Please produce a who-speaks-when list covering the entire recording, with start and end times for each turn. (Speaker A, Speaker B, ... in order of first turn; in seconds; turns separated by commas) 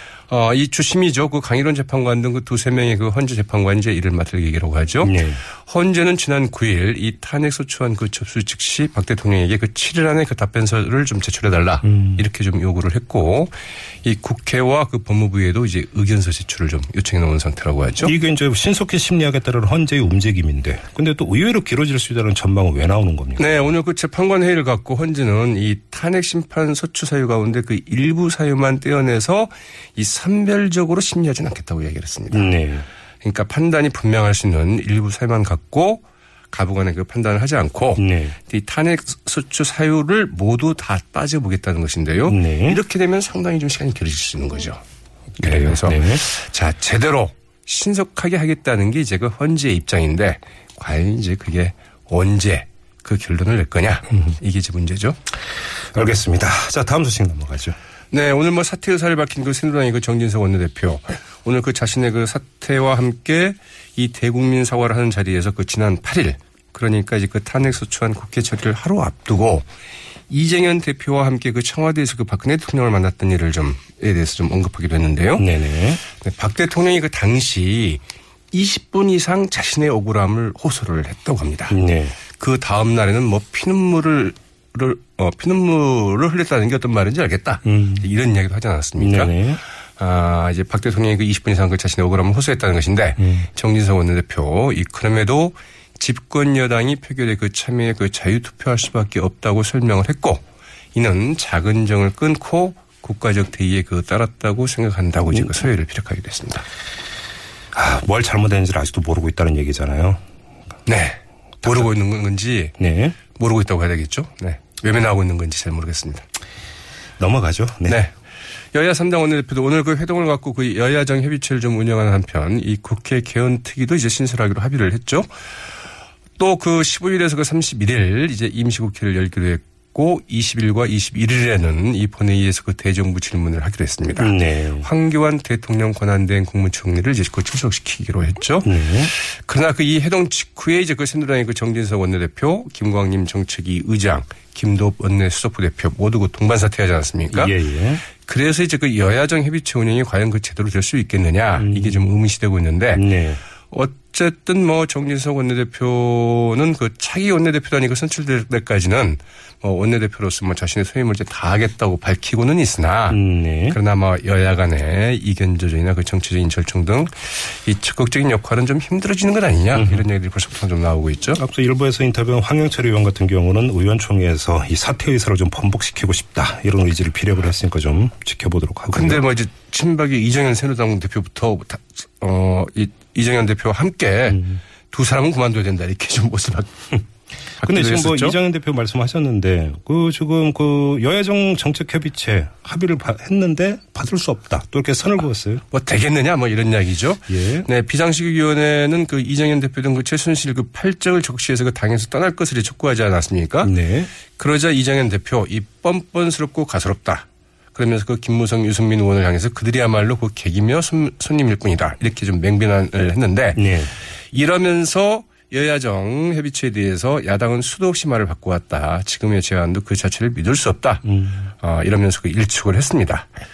Speaker A: 0.3-18.1, Speaker B: 5.0-5.4, Speaker B: 11.8-12.2, Speaker B: 18.0-23.7, Speaker A: 23.4-32.6, Speaker B: 32.3-32.9, Speaker A: 33.2-44.8, Speaker B: 38.0-38.4, Speaker B: 42.3-42.8, Speaker B: 45.4-46.2, Speaker A: 45.4-55.2, Speaker B: 55.9-57.8, Speaker A: 58.1-69.7, Speaker A: 70.3-75.5, Speaker B: 75.4-76.0, Speaker A: 76.1-81.8, Speaker B: 81.7-82.2, Speaker A: 82.3-89.4, Speaker B: 87.7-88.1, Speaker B: 89.0-89.6, Speaker A: 90.0-106.7, Speaker B: 93.2-93.5, Speaker B: 107.7-110.2, Speaker A: 110.9-116.2, Speaker B: 112.8-113.2, Speaker B: 117.2-118.0, Speaker A: 117.9-118.1, Speaker A: 118.7-125.3, Speaker A: 126.4-147.6, Speaker B: 134.2-134.9, Speaker B: 138.6-139.1, Speaker B: 147.3-148.0, Speaker A: 148.1-153.1, Speaker B: 151.6-152.2, Speaker B: 152.9-153.4, Speaker A: 153.7-171.4, Speaker B: 163.1-163.8, Speaker B: 169.8-170.1, Speaker B: 171.3-179.3, Speaker A: 178.9-187.0, Speaker B: 184.3-184.6, Speaker A: 187.6-188.4, Speaker B: 187.6-195.6, Speaker A: 195.7-203.7, Speaker B: 197.3-197.7, Speaker B: 203.6-204.1, Speaker A: 204.3-213.7, Speaker B: 213.5-213.9, Speaker A: 214.3-223.3, Speaker B: 221.1-221.5